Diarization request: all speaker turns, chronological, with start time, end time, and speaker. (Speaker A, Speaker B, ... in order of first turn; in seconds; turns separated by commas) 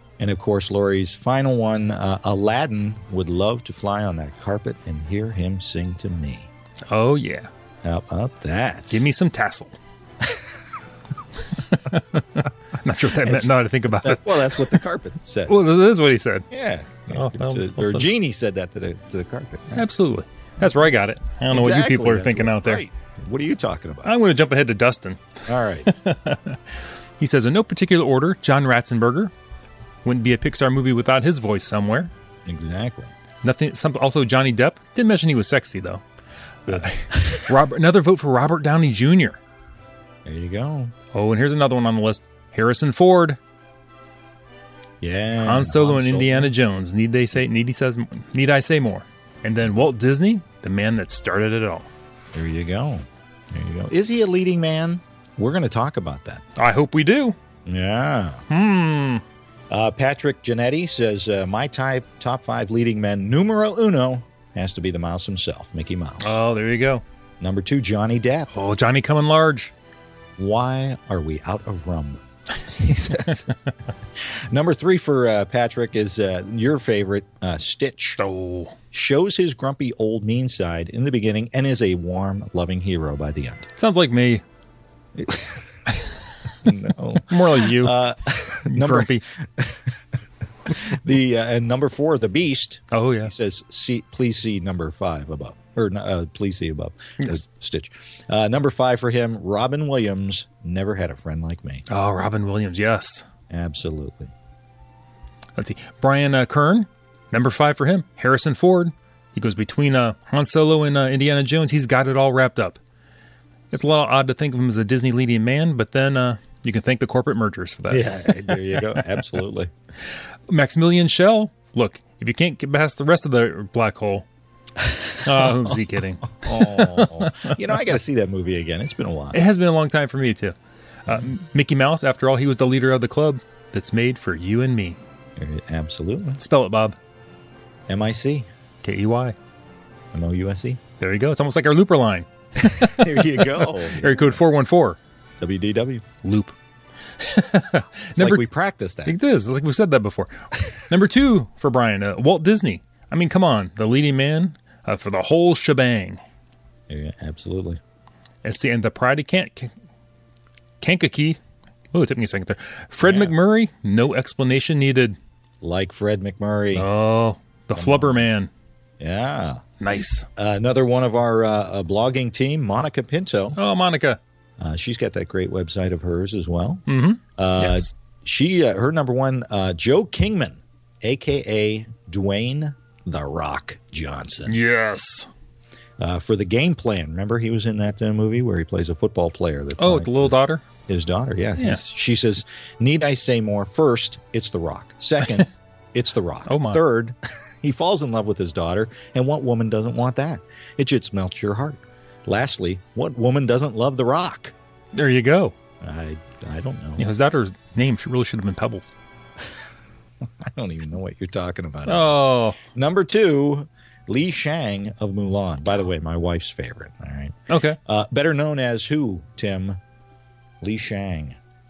Speaker A: 0.2-6.5, Speaker B: 6.9-7.5, Speaker A: 7.8-9.0, Speaker B: 8.9-9.8, Speaker A: 10.2-10.5, Speaker B: 11.5-14.8, Speaker A: 13.2-15.6, Speaker B: 15.5-16.5, Speaker A: 16.5-19.8, Speaker B: 17.1-18.1, Speaker B: 19.7-22.8, Speaker A: 21.5-24.1, Speaker B: 24.0-25.3, Speaker A: 25.5-25.9, Speaker B: 25.8-29.3, Speaker B: 30.0-32.1, Speaker A: 32.5-33.1, Speaker B: 33.4-36.0, Speaker A: 36.7-37.5, Speaker B: 36.7-39.4, Speaker A: 40.2-40.9, Speaker B: 41.1-43.4, Speaker A: 45.0-46.5, Speaker B: 45.4-51.9, Speaker A: 52.3-56.4, Speaker B: 56.5-57.4, Speaker A: 57.6-58.5, Speaker B: 58.5-59.2, Speaker A: 59.7-66.4, Speaker B: 66.2-67.0, Speaker A: 67.4-68.5, Speaker B: 68.5-69.7, Speaker A: 70.4-73.5, Speaker A: 74.2-78.2, Speaker B: 78.2-78.8, Speaker A: 78.9-83.7, Speaker B: 83.8-84.4, Speaker A: 85.2-85.7, Speaker A: 86.6-90.0, Speaker B: 87.2-88.0, Speaker B: 88.7-89.2, Speaker A: 90.7-101.8, Speaker B: 92.9-93.3, Speaker B: 101.9-103.2, Speaker A: 103.5-104.3, Speaker B: 105.5-112.8, Speaker B: 113.7-119.2, Speaker A: 117.9-119.7, Speaker B: 120.5-124.2, Speaker B: 125.2-127.6, Speaker A: 125.3-125.7, Speaker A: 126.4-129.4, Speaker B: 129.3-130.5, Speaker B: 131.1-135.0, Speaker A: 135.4-136.4, Speaker B: 136.4-137.0, Speaker A: 137.9-138.5, Speaker B: 138.8-139.3, Speaker A: 140.1-140.8, Speaker B: 141.0-145.0, Speaker A: 142.6-144.4, Speaker A: 145.4-146.0, Speaker B: 146.2-146.5, Speaker B: 147.2-148.4, Speaker A: 148.2-149.2, Speaker B: 149.1-156.2, Speaker A: 156.9-157.8, Speaker B: 158.4-159.7, Speaker B: 160.8-161.4, Speaker B: 161.9-165.2, Speaker A: 163.0-163.3, Speaker A: 165.6-166.8, Speaker B: 166.7-168.5, Speaker A: 167.7-168.2, Speaker A: 169.0-169.6, Speaker B: 169.8-170.3, Speaker A: 170.3-173.6, Speaker B: 173.6-174.2, Speaker A: 174.6-176.8, Speaker B: 176.9-177.9, Speaker A: 177.4-184.5, Speaker B: 184.5-185.3, Speaker A: 186.0-204.5, Speaker B: 189.8-190.6, Speaker B: 196.5-196.8, Speaker B: 204.9-205.5, Speaker A: 205.8-207.1, Speaker B: 207.0-208.9, Speaker A: 210.4-219.8, Speaker B: 211.9-212.6, Speaker B: 217.5-217.8, Speaker A: 220.6-221.4